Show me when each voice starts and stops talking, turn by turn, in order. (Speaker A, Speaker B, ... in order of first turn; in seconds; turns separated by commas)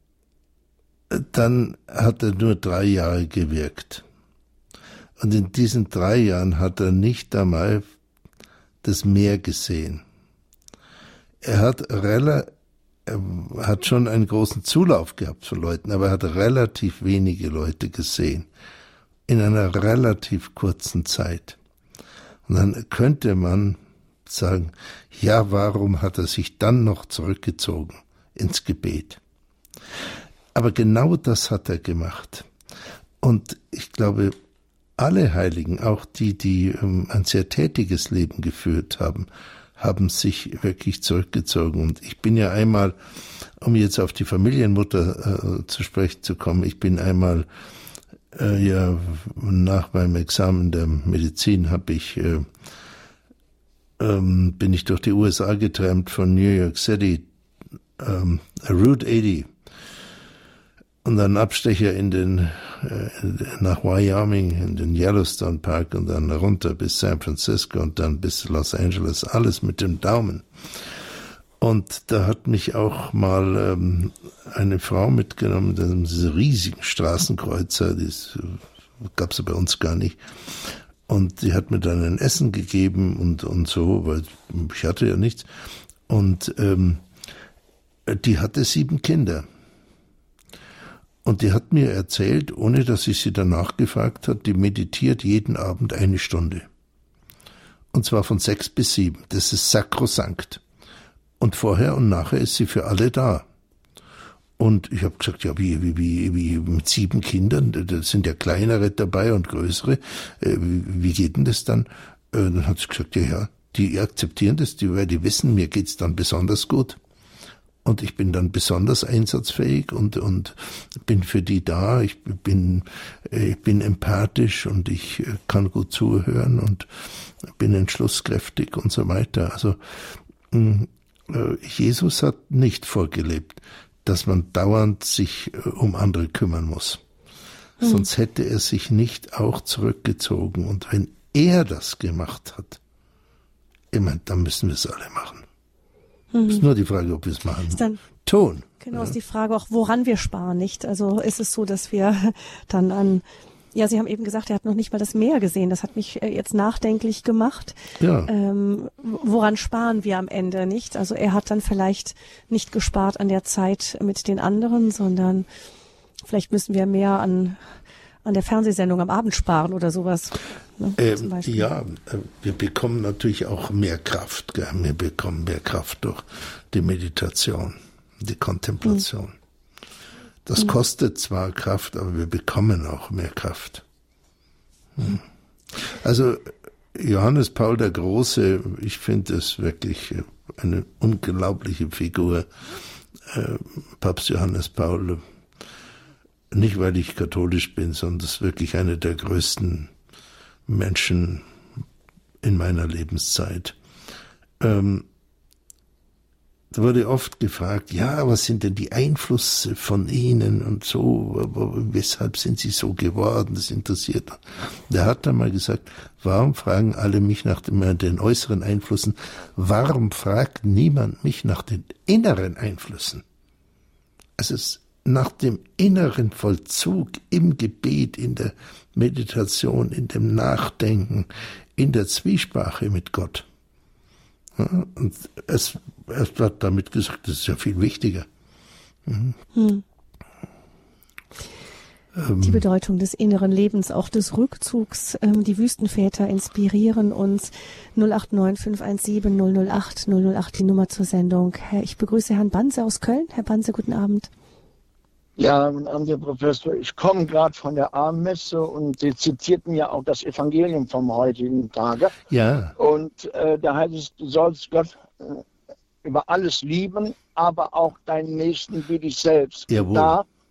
Speaker A: 1.1-4.0, Speaker A: 5.2-7.8, Speaker A: 8.8-10.0, Speaker A: 11.4-12.5, Speaker A: 13.1-18.5, Speaker A: 19.3-21.6, Speaker A: 22.5-29.2, Speaker A: 30.5-32.5, Speaker A: 33.2-34.4, Speaker A: 35.0-43.0, Speaker A: 43.6-47.5, Speaker A: 48.3-52.5, Speaker A: 54.0-57.3, Speaker A: 58.0-59.5, Speaker A: 61.0-70.5, Speaker A: 71.6-85.5, Speaker A: 86.1-87.0, Speaker A: 88.1-89.5, Speaker A: 91.2-96.7, Speaker A: 97.9-100.6, Speaker A: 101.4-103.5, Speaker A: 104.6-117.0, Speaker A: 117.8-137.0, Speaker B: 137.8-138.1, Speaker A: 137.8-142.8, Speaker A: 143.9-145.5, Speaker B: 146.3-146.7, Speaker A: 146.5-149.2, Speaker B: 147.7-148.0, Speaker B: 148.8-165.5, Speaker A: 158.0-158.3, Speaker B: 166.3-167.6, Speaker B: 168.2-171.7, Speaker A: 171.0-179.4, Speaker A: 180.4-183.8, Speaker A: 185.7-192.5, Speaker A: 193.3-195.2, Speaker A: 196.5-199.9, Speaker A: 200.7-201.5, Speaker A: 202.4-203.8, Speaker A: 204.6-205.1, Speaker A: 206.7-223.2, Speaker A: 224.4-233.5, Speaker A: 234.6-238.3, Speaker A: 239.1-239.4, Speaker B: 239.5-239.8, Speaker A: 242.2-242.6, Speaker B: 242.4-254.3, Speaker C: 255.4-262.2, Speaker A: 262.3-262.8, Speaker C: 262.8-265.4, Speaker C: 266.0-270.3, Speaker A: 269.7-270.2